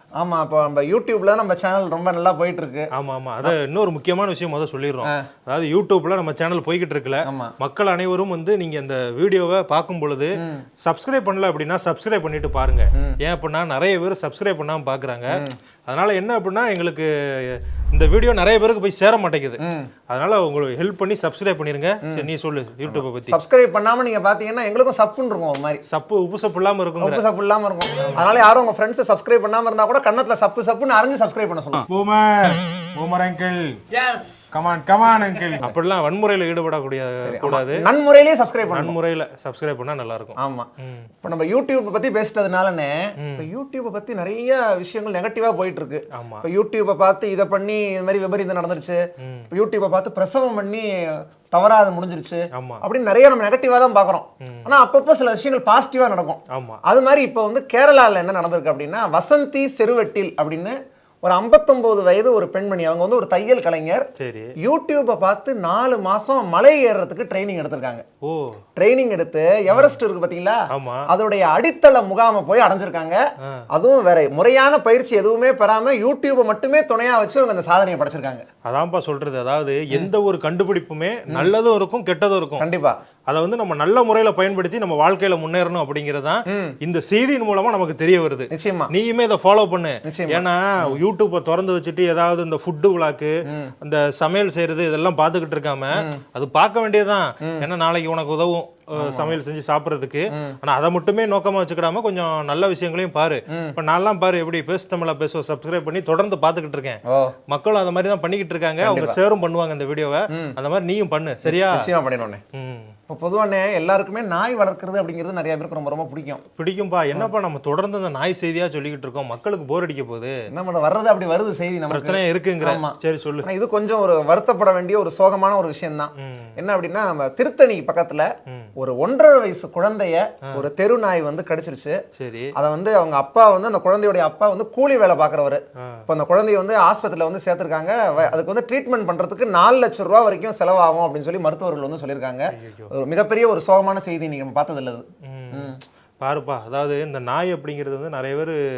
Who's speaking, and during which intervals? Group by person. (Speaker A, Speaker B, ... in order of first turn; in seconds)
Speaker A: 0.2-2.9, 7.2-7.5, 10.4-10.6, 15.3-15.6, 19.6-19.9, 22.9-25.8, 27.0-31.9, 37.2-39.0, 40.4-40.7, 41.2-49.0, 49.5-64.1, 64.6-68.0, 68.8-73.2, 73.7-78.5, 82.6-83.0, 86.5-86.8, 88.5-88.9, 90.0-91.0, 93.5-93.7, 96.0-96.2, 99.0-99.4, 100.3-100.6, 107.1-107.3, 108.8-109.2, 111.5-112.4, 113.1-116.4, 120.5-132.0, 132.6-145.8
Speaker B: 3.0-23.4, 25.9-27.2, 28.0-28.3, 35.6-37.8, 38.7-41.1, 43.2-43.5, 46.1-46.5, 49.2-49.5, 52.5-52.8, 54.4-54.7, 56.5-56.8, 64.2-64.5, 68.2-68.6, 69.7-70.0, 70.7-71.1, 78.7-82.7, 83.3-111.9, 112.5-112.9, 116.5-120.3, 121.9-123.5, 126.2-126.6, 132.2-132.5, 142.5-142.9, 145.2-148.6
Speaker C: 31.9-33.8, 34.5-35.6